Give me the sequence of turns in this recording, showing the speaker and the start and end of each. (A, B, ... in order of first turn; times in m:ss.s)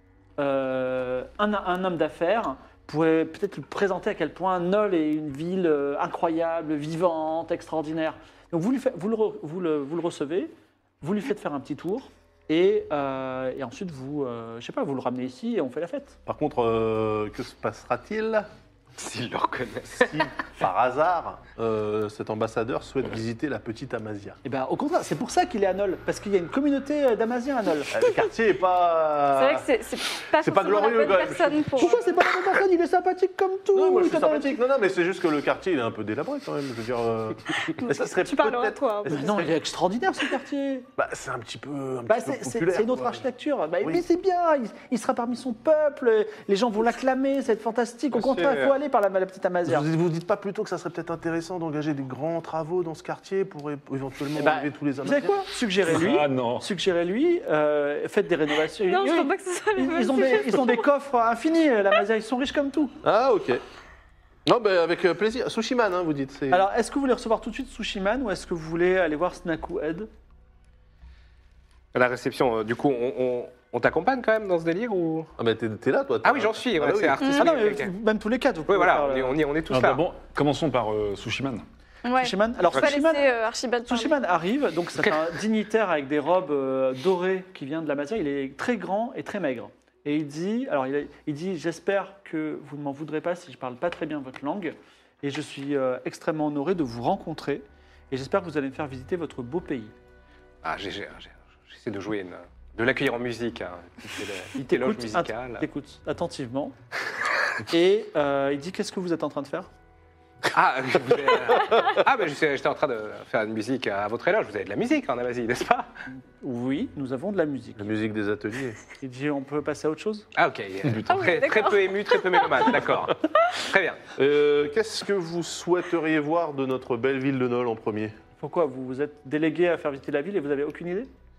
0:00.4-0:16.2 A
0:16.2-0:18.5 B
0:19.0-0:20.3 C
0:20.0-0:24.4 B
0:24.4-0:28.0 A
0:27.9-0:29.7 B
0:29.3-0:32.0 D
0:30.3-0:32.0 B
0:31.8-0:34.5 A
0:33.7-0:39.4 B
0:37.8-0:39.4 D
0:37.9-0:38.3 A
0:39.0-0:40.9 A
0:41.0-0:43.2 B
0:42.1-0:49.9 A
0:48.1-0:48.7 C
0:49.6-0:55.5 B
0:54.4-1:03.0 A
0:55.8-0:56.7 E
0:58.8-1:00.8 D
1:03.0-1:03.6 B
1:04.4-1:06.6 B
1:06.5-1:10.1 A
1:11.9-1:15.3 C
1:15.4-1:17.3 B
1:16.2-1:17.9 C
1:17.2-1:17.5 D
1:17.4-1:19.4 A
1:18.7-1:20.0 C
1:19.7-1:21.6 E
1:22.0-1:24.2 D
1:22.2-1:23.3 A
1:23.9-1:39.9 A
1:40.6-1:45.6 C
1:44.6-1:46.7 A
1:47.7-1:49.7 A
1:50.5-1:55.9 C
1:56.4-1:57.9 A
1:57.8-1:58.8 B
1:59.0-2:00.2 A
2:00.3-2:04.0 C
2:00.8-2:01.3 E
2:01.1-2:02.7 D
2:04.2-2:08.1 B
2:08.4-2:11.1 A